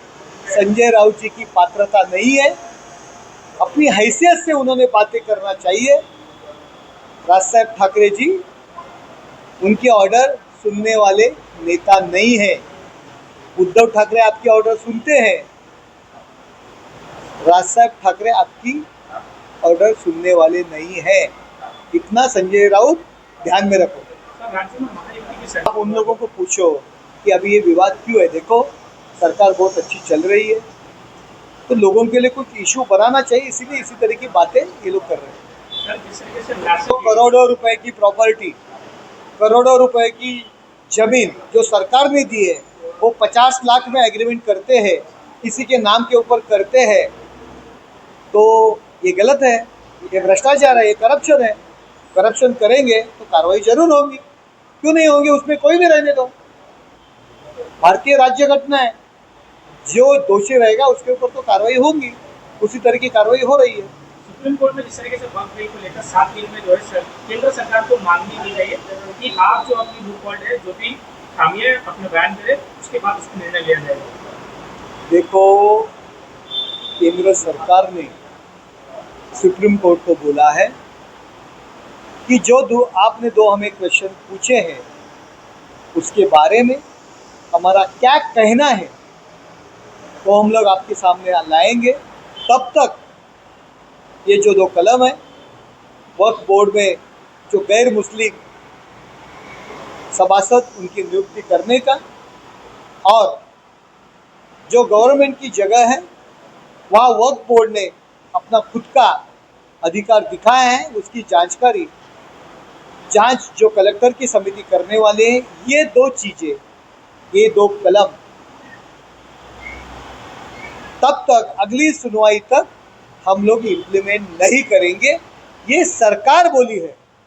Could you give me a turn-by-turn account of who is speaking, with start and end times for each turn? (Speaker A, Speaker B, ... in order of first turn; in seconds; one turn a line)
Speaker A: 0.5-2.6
Speaker A: 3.6-6.0
Speaker A: 7.3-8.4
Speaker A: 9.6-12.6
Speaker A: 13.6-15.5
Speaker A: 17.4-18.9
Speaker A: 19.6-21.3
Speaker A: 21.9-24.1
Speaker B: 24.4-26.1
Speaker A: 25.6-30.6
Speaker A: 31.7-35.4
Speaker B: 35.8-37.3
Speaker A: 36.9-38.6
Speaker A: 39.4-47.1
Speaker A: 48.3-51.6
Speaker A: 52.1-54.2
Speaker A: 54.8-56.3
Speaker A: 57.8-58.9
Speaker A: 59.9-63.9
Speaker B: 64.2-74.1
Speaker A: 75.1-75.9
Speaker A: 77.0-78.1
Speaker A: 79.3-80.7
Speaker A: 82.3-84.8
Speaker A: 85.9-86.8
Speaker A: 87.5-88.9
Speaker A: 90.2-93.0
Speaker A: 94.2-95.2
Speaker A: 96.2-98.4
Speaker A: 100.1-102.0
Speaker A: 103.0-103.4
Speaker A: 104.7-106.0
Speaker A: 106.9-109.2
Speaker A: 109.8-111.9
Speaker A: 113.1-116.6
Speaker A: 117.3-118.2
Speaker A: 121.0-122.7
Speaker A: 123.3-127.0